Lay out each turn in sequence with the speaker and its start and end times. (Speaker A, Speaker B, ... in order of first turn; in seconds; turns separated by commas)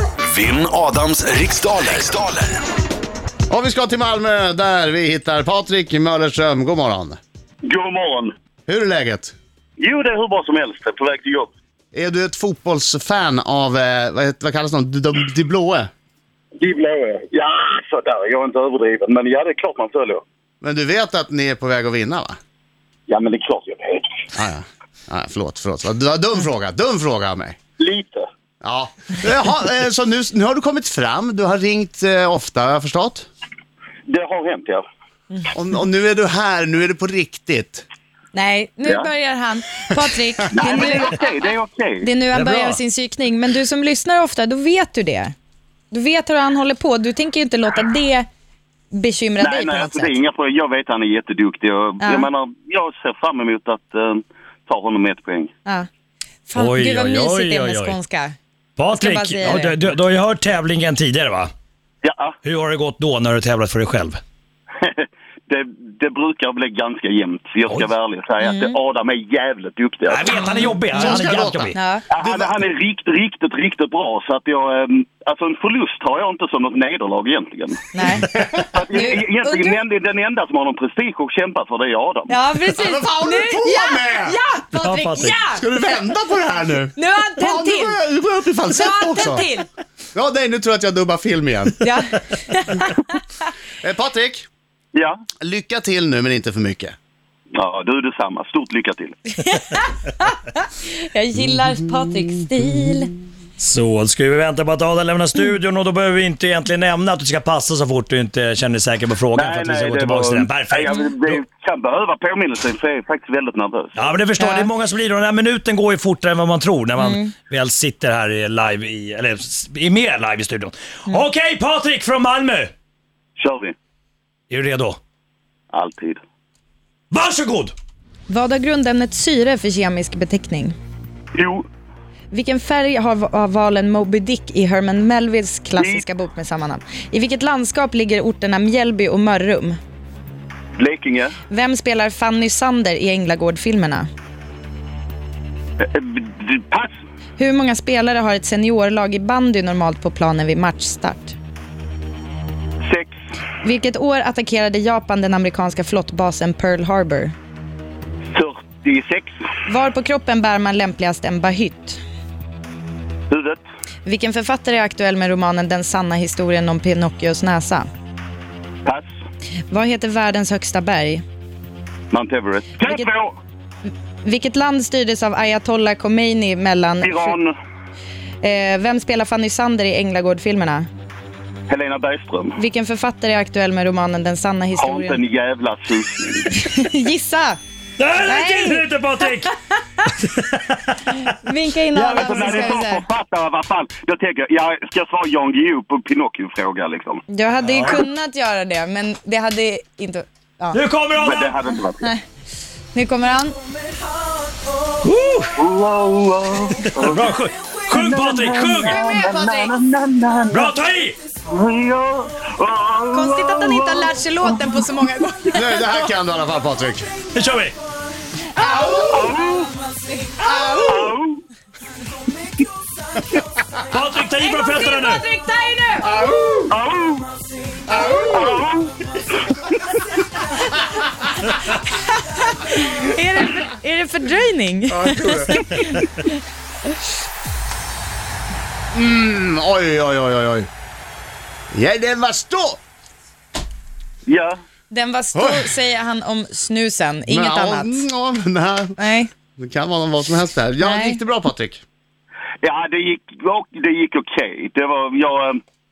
Speaker A: 0.3-2.6, Speaker B: 3.5-7.2, Speaker C: 7.7-8.3, Speaker B: 8.7-9.3, Speaker C: 9.8-11.5, Speaker B: 11.9-15.9, Speaker C: 16.6-20.2, Speaker B: 20.6-22.4, Speaker C: 23.1-24.2, Speaker B: 24.4-27.6, Speaker C: 27.8-28.2, Speaker B: 28.6-33.3, Speaker C: 34.1-34.8, Speaker B: 35.5-37.9, Speaker D: 38.3-41.1, Speaker C: 40.5-42.1, Speaker D: 42.0-45.3, Speaker E: 42.3-42.8, Speaker D: 45.9-48.3, Speaker D: 48.9-50.2, Speaker C: 49.4-55.5, Speaker D: 52.0-52.3, Speaker D: 56.5-58.4, Speaker E: 56.6-58.0, Speaker E: 58.8-61.5, Speaker D: 58.9-59.8, Speaker C: 62.0-62.4, Speaker E: 62.5-64.2, Speaker C: 64.8-70.3, Speaker D: 68.4-68.8, Speaker E: 70.1-71.8, Speaker D: 70.5-72.0, Speaker B: 70.9-72.6, Speaker C: 72.1-77.9, Speaker D: 77.9-78.4, Speaker B: 78.2-78.7, Speaker C: 78.7-82.4, Speaker D: 78.9-79.8, Speaker D: 82.3-85.6, Speaker B: 82.7-84.4, Speaker E: 84.7-85.4, Speaker B: 85.4-89.5, Speaker D: 87.0-88.0, Speaker D: 88.7-89.7, Speaker B: 90.1-91.8, Speaker D: 91.8-93.0, Speaker B: 93.8-94.5, Speaker C: 94.9-95.2, Speaker B: 95.4-97.0, Speaker C: 97.5-99.2, Speaker D: 99.4-103.1, Speaker E: 103.6-111.4, Speaker C: 109.3-114.1, Speaker E: 114.0-122.7, Speaker D: 114.4-114.7, Speaker D: 117.0-117.3, Speaker C: 123.4-123.7, Speaker E: 124.5-125.0, Speaker C: 125.7-126.2, Speaker E: 127.1-127.7, Speaker D: 128.3-130.8, Speaker C: 131.3-131.7, Speaker D: 132.3-139.8, Speaker C: 135.8-136.0, Speaker C: 140.8-141.4, Speaker D: 141.5-144.1, Speaker C: 145.8-146.9, Speaker D: 147.4-151.4, Speaker C: 152.8-153.1, Speaker D: 153.6-157.3, Speaker C: 158.3-159.3, Speaker D: 159.7-162.0, Speaker C: 163.3-163.6, Speaker D: 164.1-167.9, Speaker D: 169.7-171.2, Speaker C: 172.1-173.3, Speaker D: 174.2-177.4, Speaker C: 177.0-177.5, Speaker D: 178.4-180.9, Speaker C: 181.7-182.6, Speaker D: 182.6-185.2, Speaker C: 184.8-186.5, Speaker D: 186.6-187.6, Speaker E: 188.0-189.5, Speaker D: 188.2-189.5, Speaker E: 190.1-191.4, Speaker D: 191.3-193.0, Speaker E: 191.9-192.8, Speaker C: 192.2-197.2, Speaker D: 197.3-200.8, Speaker E: 197.6-198.0, Speaker E: 200.7-201.6, Speaker C: 201.2-202.1, Speaker D: 202.9-203.6, Speaker E: 205.0-205.6, Speaker C: 205.6-210.7, Speaker E: 206.9-209.0, Speaker D: 208.8-209.7, Speaker E: 210.5-211.2, Speaker C: 211.5-214.9, Speaker D: 213.1-215.9, Speaker B: 215.5-217.1, Speaker E: 217.3-217.8, Speaker D: 218.6-219.3, Speaker C: 218.9-219.7, Speaker D: 220.3-220.9, Speaker C: 220.6-221.4, Speaker E: 223.8-225.2, Speaker D: 224.4-226.3, Speaker B: 226.0-226.7, Speaker C: 226.7-227.3, Speaker B: 227.9-228.4, Speaker C: 228.2-229.7, Speaker D: 231.7-236.3, Speaker B: 234.9-235.6, Speaker B: 238.9-240.7, Speaker B: 241.7-242.8, Speaker C: 244.3-244.6, Speaker D: 244.9-248.1, Speaker B: 245.3-245.7, Speaker B: 247.3-248.9, Speaker D: 249.0-249.3, Speaker B: 249.6-251.8, Speaker D: 250.8-251.2, Speaker C: 252.6-255.6